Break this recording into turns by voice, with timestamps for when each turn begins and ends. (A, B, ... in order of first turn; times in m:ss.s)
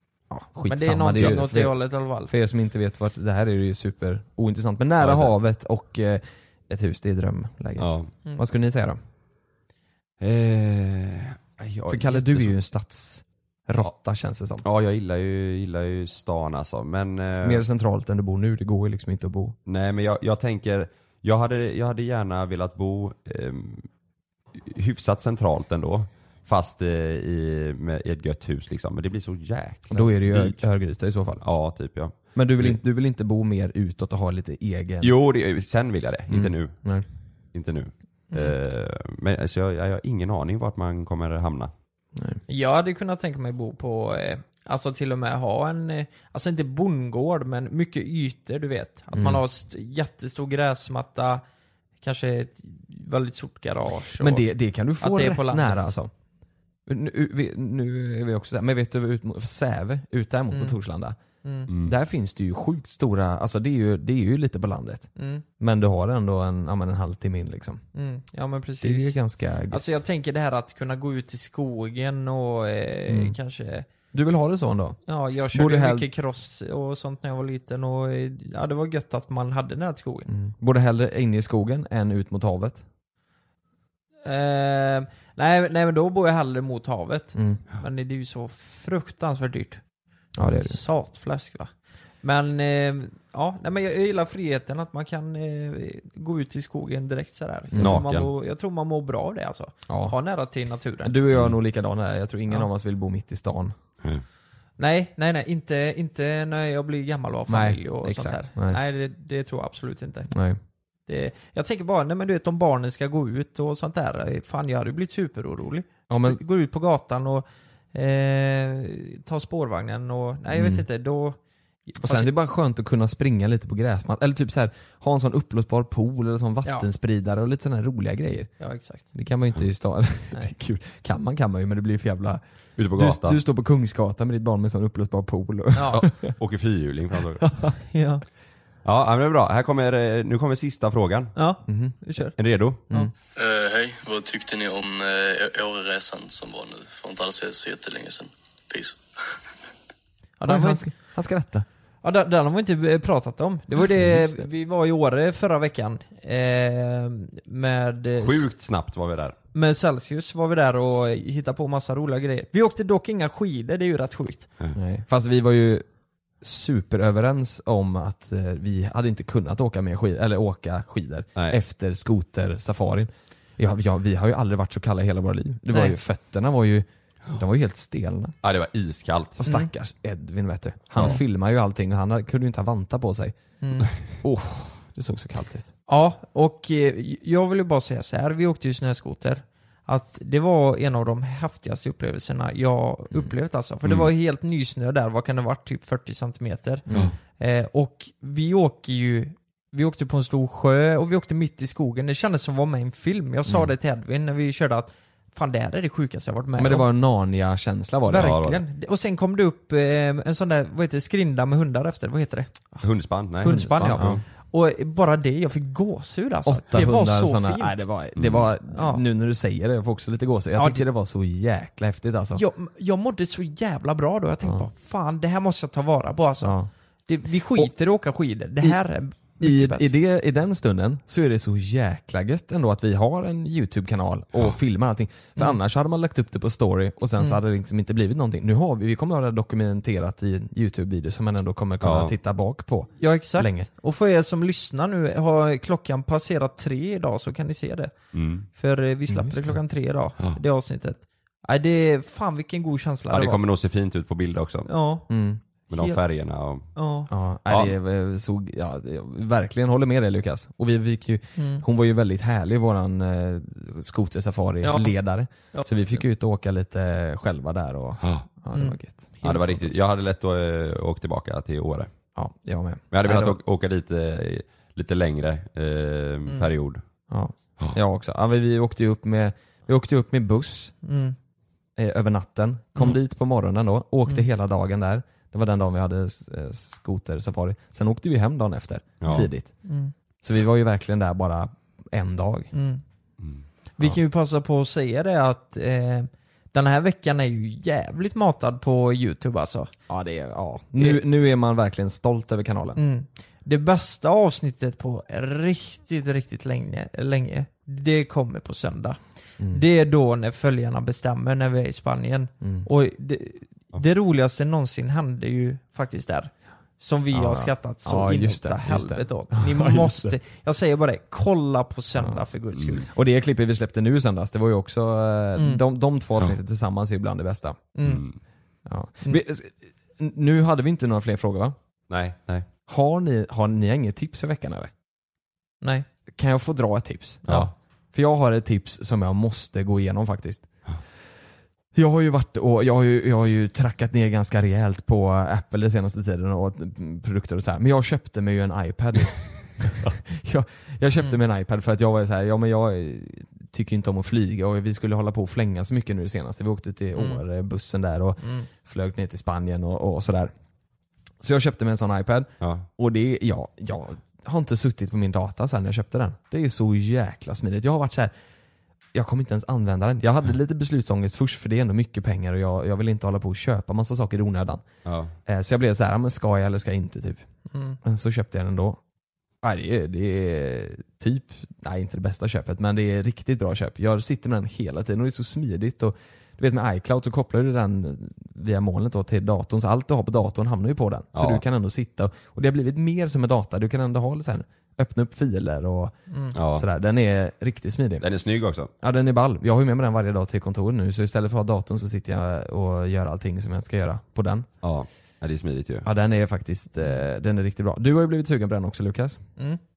0:00.3-0:09.0 A
0:00.6-0:02.3 B
0:05.0-0:05.3 C
0:07.8-0:08.1 C
0:10.2-0:12.5 C
0:11.9-0:14.6 A
0:14.6-0:17.6 C
0:17.4-0:19.6 A
0:19.6-0:23.9 C
0:24.6-0:30.6 C
0:29.9-0:31.4 A
0:31.4-0:32.8 C
0:32.3-0:35.1 A
0:35.0-0:36.8 C
0:36.3-0:37.0 A
0:37.5-0:41.7 C
0:42.5-0:51.4 B
0:49.1-0:49.4 A
0:52.0-0:54.4 B
0:54.2-0:56.1 A
0:55.0-0:55.9 B
0:56.9-1:01.2 A
1:00.5-1:00.8 B
1:01.4-1:01.7 B
1:01.7-1:07.8 A
1:05.2-1:05.4 B
1:07.9-1:09.2 B
1:08.8-1:10.0 A
1:09.7-1:13.9 B
1:13.1-1:13.4 A
1:14.1-1:15.0 A
1:15.1-1:20.3 B
1:15.5-1:16.1 A
1:20.3-1:22.8 A
1:24.2-1:29.8 B
1:27.3-1:27.6 A
1:30.4-1:30.8 A
1:30.6-1:31.7 B
1:32.2-1:41.1 B
1:37.7-1:38.0 A
1:37.8-1:38.3 C
1:39.9-1:40.1 A
1:41.0-1:43.7 A
1:44.8-1:50.3 B
1:47.5-1:48.8 A
1:50.3-1:50.6 A
1:51.1-2:02.3 B
1:56.1-1:56.4 A
2:00.5-2:00.8 A
2:02.0-2:08.5 A
2:08.6-2:09.1 B
2:09.1-2:12.4 A
2:12.8-2:13.4 C
2:12.9-2:16.3 A
2:15.7-2:16.0 B
2:15.9-2:17.4 C
2:17.4-2:17.7 A
2:17.9-2:18.2 B
2:18.8-2:21.3 C
2:21.4-2:22.4 B
2:21.6-2:22.0 A
2:22.4-2:22.8 C
2:23.4-2:29.4 D
2:30.4-2:30.9 B
2:30.4-2:31.6 A
2:32.0-2:38.4 B
2:33.9-2:34.4 A
2:38.2-2:39.4 C
2:39.5-2:44.5 B
2:44.7-2:45.8 A
2:46.4-2:58.3 A
2:55.7-2:56.0 B
2:58.4-2:59.4 C
2:59.4-3:03.4 A
2:59.4-2:59.7 B
3:03.6-3:03.9 B
3:04.2-3:05.7 A
3:05.9-3:26.9 B
3:13.8-3:14.1 C
3:16.9-3:17.1 A
3:23.4-3:23.7 A
3:26.6-3:28.4 A
3:28.1-3:32.8 B
3:28.2-3:28.6 C
3:32.8-3:34.2 C
3:33.4-3:37.9 B
3:33.4-3:34.2 A
3:36.4-3:42.4 A
3:38.2-3:38.4 C
3:38.7-3:39.0 B
3:40.6-3:40.9 B
3:42.3-3:46.6 B
3:44.4-3:44.7 A
3:46.4-3:46.7 A
3:47.1-3:49.9 B
3:49.4-4:03.7 A
4:01.8-4:02.1 C
4:03.0-4:07.9 B
4:08.1-4:08.5 C
4:08.5-4:13.4 B
4:09.1-4:09.6 A
4:13.1-4:14.7 C
4:14.6-4:15.1 B
4:15.1-4:15.4 A
4:15.7-4:16.7 C
4:15.7-4:16.0 B
4:16.7-4:17.1 B
4:17.1-4:29.8 A
4:17.5-4:17.7 C
4:21.4-4:21.6 B
4:24.6-4:24.9 B
4:25.5-4:26.0 B
4:28.5-4:28.8 B
4:29.2-4:31.9 C
4:32.1-4:33.4 A
4:32.9-4:36.8 C
4:37.1-4:40.7 A
4:40.8-4:41.2 B
4:41.8-4:49.5 A
4:49.0-4:49.3 C
4:49.6-4:49.9 B
4:50.2-4:52.5 A
4:52.5-4:52.8 B
4:53.8-4:59.7 B
4:59.9-5:02.8 A
5:02.8-5:22.9 B
5:12.4-5:12.7 A
5:17.1-5:20.2 A
5:22.8-5:27.7 A
5:25.4-5:25.6 B
5:27.7-5:28.0 B
5:27.8-5:28.2 C
5:28.6-5:31.5 A
5:31.9-5:32.5 C
5:32.7-5:34.7 A
5:36.1-5:40.5 A
5:41.7-6:00.3 A
5:56.9-5:57.2 B
5:58.2-5:58.5 B
6:01.2-6:08.1 A
6:02.4-6:02.7 C
6:08.9-6:14.6 A
6:14.9-6:15.1 C
6:15.2-6:17.2 A
6:17.5-6:17.8 B
6:17.8-6:18.8 A
6:19.4-6:35.9 A
6:31.2-6:31.4 C
6:36.3-6:36.6 C
6:36.5-6:38.0 A
6:38.0-6:38.7 C
6:38.8-6:44.5 A
6:44.6-6:45.9 C
6:45.8-6:49.2 A